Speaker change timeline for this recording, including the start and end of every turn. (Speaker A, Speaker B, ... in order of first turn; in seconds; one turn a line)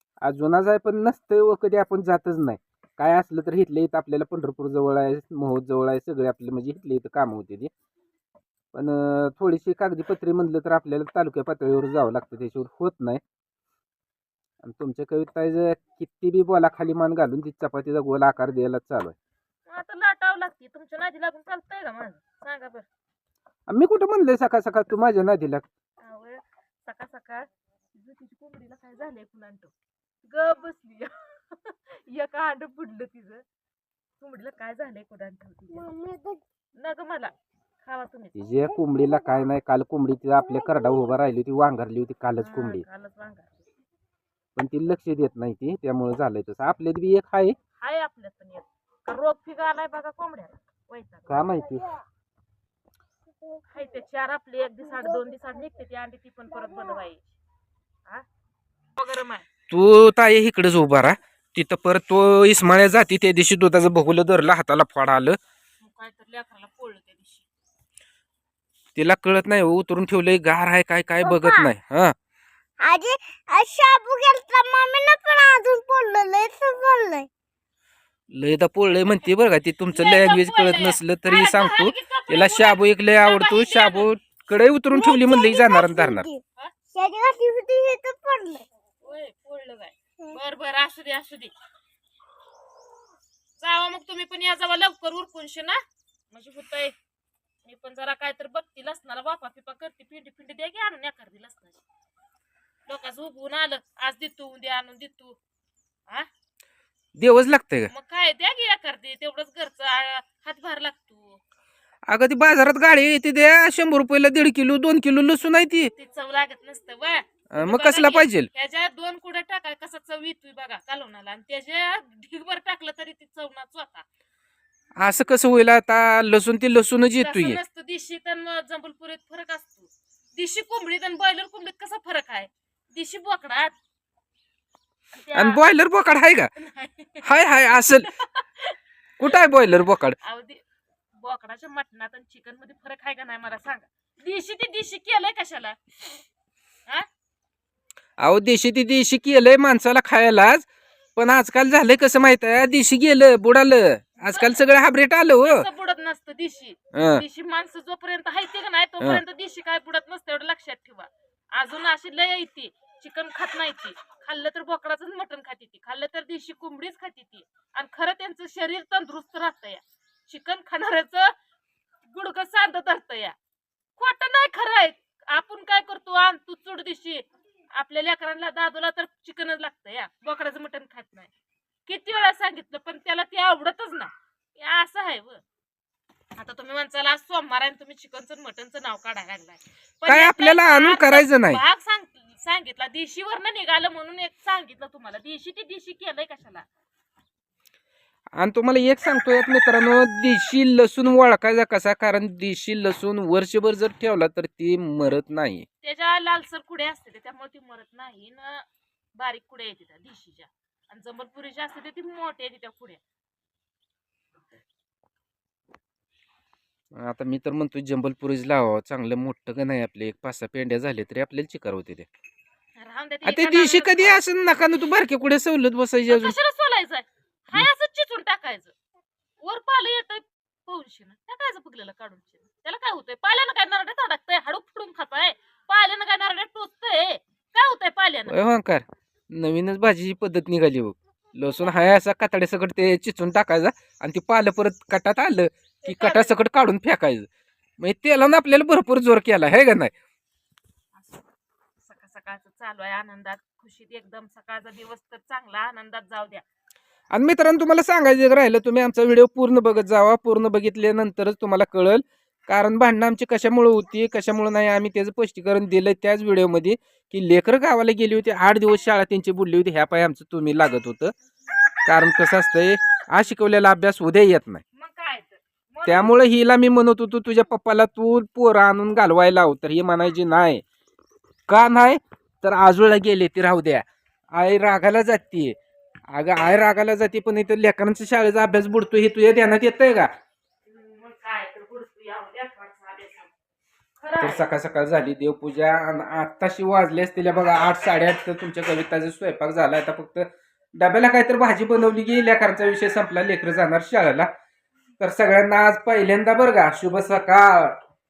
Speaker A: 0.2-7.7
Speaker A: 8.7-13.2
Speaker A: 14.6-19.1
Speaker B: 19.7-22.9
Speaker A: 23.7-25.6
Speaker B: 26.0-29.7
Speaker B: 30.2-33.4
Speaker B: 34.2-35.9
Speaker C: 35.8-36.4
Speaker B: 36.8-37.3
Speaker B: 37.8-38.3
Speaker A: 38.3-42.8
Speaker B: 42.4-43.6
Speaker A: 44.5-47.5
Speaker B: 47.8-51.5
Speaker A: 51.3-51.9
Speaker B: 53.7-57.3
Speaker B: 59.0-59.5
Speaker A: 59.7-65.4
Speaker B: 65.8-67.4
Speaker A: 69.0-72.1
Speaker C: 71.2-71.7
Speaker C: 72.8-77.3
Speaker A: 78.3-86.2
Speaker B: 79.9-84.1
Speaker C: 84.9-86.4
Speaker C: 86.9-88.7
Speaker B: 89.0-91.5
Speaker B: 93.6-95.8
Speaker B: 96.3-96.9
Speaker B: 97.6-101.8
Speaker B: 102.9-105.3
Speaker A: 107.2-107.9
Speaker B: 107.9-111.4
Speaker A: 112.1-115.9
Speaker B: 116.0-124.0
Speaker A: 117.5-118.5
Speaker A: 125.0-127.6
Speaker B: 127.2-133.7
Speaker B: 135.2-135.6
Speaker A: 135.3-136.5
Speaker B: 136.6-137.2
Speaker A: 137.2-138.1
Speaker B: 138.1-138.8
Speaker A: 139.2-140.2
Speaker B: 140.2-140.6
Speaker B: 141.2-145.8
Speaker A: 148.2-155.7
Speaker B: 154.3-154.7
Speaker B: 155.4-171.3
Speaker A: 156.9-157.2
Speaker B: 172.1-173.3
Speaker B: 174.0-181.3
Speaker B: 181.9-185.4
Speaker B: 186.4-196.7
Speaker A: 190.1-191.6
Speaker A: 198.3-205.7
Speaker B: 205.8-213.0
Speaker A: 216.9-222.1
Speaker B: 222.8-224.2
Speaker A: 223.2-226.3
Speaker B: 226.1-228.7
Speaker B: 229.4-238.3
Speaker A: 238.3-247.3
Speaker B: 245.8-246.3
Speaker A: 247.8-249.9
Speaker B: 250.9-251.2
Speaker B: 251.8-256.4
Speaker A: 257.1-271.1
Speaker A: 271.8-274.6
Speaker B: 274.7-276.2
Speaker A: 275.9-280.6
Speaker A: 281.5-285.6
Speaker A: 286.1-290.1
Speaker B: 290.6-293.3
Speaker B: 294.0-294.4
Speaker A: 294.2-304.3
Speaker A: 305.0-307.8